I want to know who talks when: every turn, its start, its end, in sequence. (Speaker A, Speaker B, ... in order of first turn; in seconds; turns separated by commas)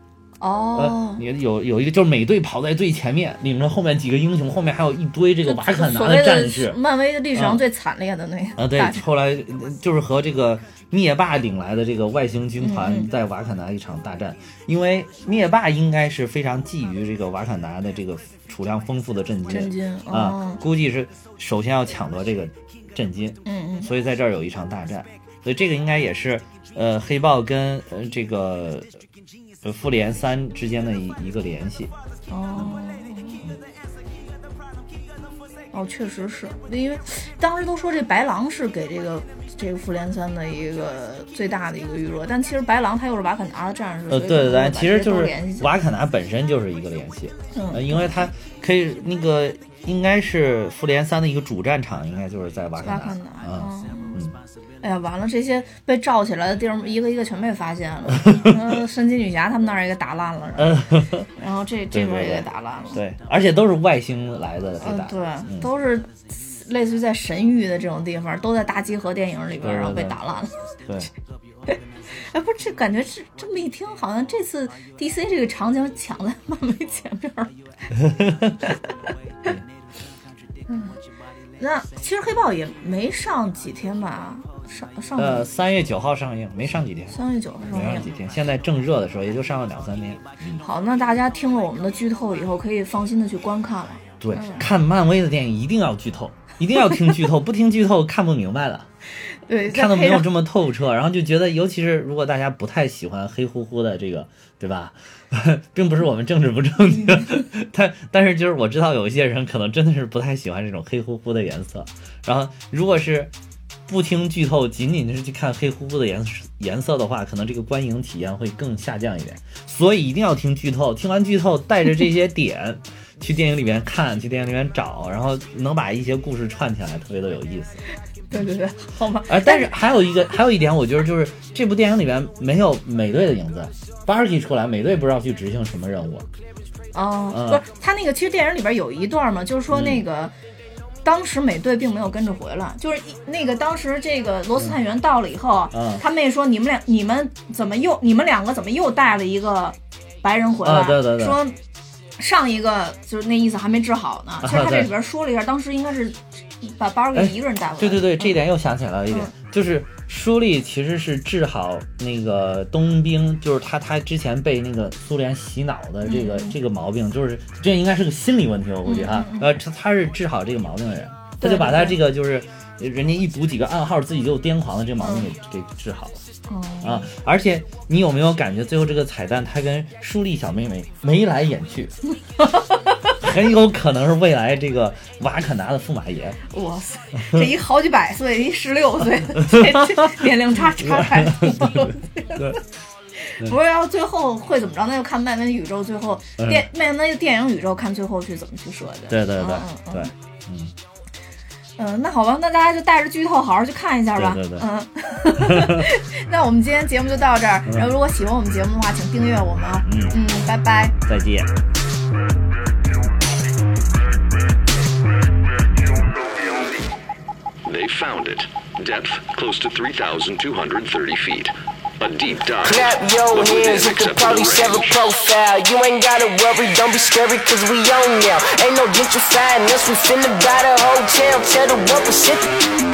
Speaker A: 0.4-1.2, Speaker B: 0.7-6.8, Speaker A: 5.4-9.0, Speaker B: 7.3-7.6, Speaker B: 8.6-28.9, Speaker A: 12.6-13.1, Speaker A: 19.5-20.6, Speaker A: 23.4-23.9, Speaker B: 29.6-31.9, Speaker A: 32.3-33.4, Speaker A: 35.7-45.7, Speaker B: 44.1-54.4, Speaker A: 47.5-48.2, Speaker A: 52.8-54.2, Speaker A: 54.8-60.8, Speaker B: 58.2-58.6, Speaker B: 60.6-61.3, Speaker A: 61.3-63.0, Speaker B: 61.9-65.7, Speaker A: 64.8-70.6, Speaker B: 69.6-70.2, Speaker A: 71.7-77.5, Speaker B: 78.0-78.6, Speaker A: 78.6-79.0, Speaker A: 80.7-81.0, Speaker A: 81.6-85.5, Speaker B: 85.2-90.6, Speaker A: 87.1-88.1, Speaker A: 90.6-94.7, Speaker B: 94.2-98.9, Speaker A: 99.5-100.3, Speaker B: 99.7-113.3, Speaker B: 113.9-127.8, Speaker A: 128.3-129.7, Speaker B: 129.3-136.3, Speaker A: 136.9-140.3, Speaker B: 137.3-137.6, Speaker B: 139.7-140.0, Speaker A: 141.0-151.6, Speaker B: 145.7-146.0, Speaker B: 150.6-151.4, Speaker A: 152.2-158.4, Speaker B: 154.4-154.9, Speaker B: 157.1-176.2, Speaker A: 166.0-166.6, Speaker A: 168.8-169.6, Speaker A: 171.4-172.0, Speaker A: 175.0-175.3, Speaker A: 176.5-177.1, Speaker B: 176.8-181.9, Speaker A: 182.4-182.7, Speaker B: 183.2-186.4, Speaker A: 186.5-192.6, Speaker B: 189.4-192.6, Speaker A: 193.2-200.1, Speaker B: 196.4-196.7, Speaker B: 199.1-200.7, Speaker A: 201.8-211.0, Speaker B: 204.2-204.7, Speaker B: 205.3-205.9, Speaker B: 209.9-210.3, Speaker B: 211.1-211.5, Speaker C: 217.6-225.1, Speaker D: 222.6-232.5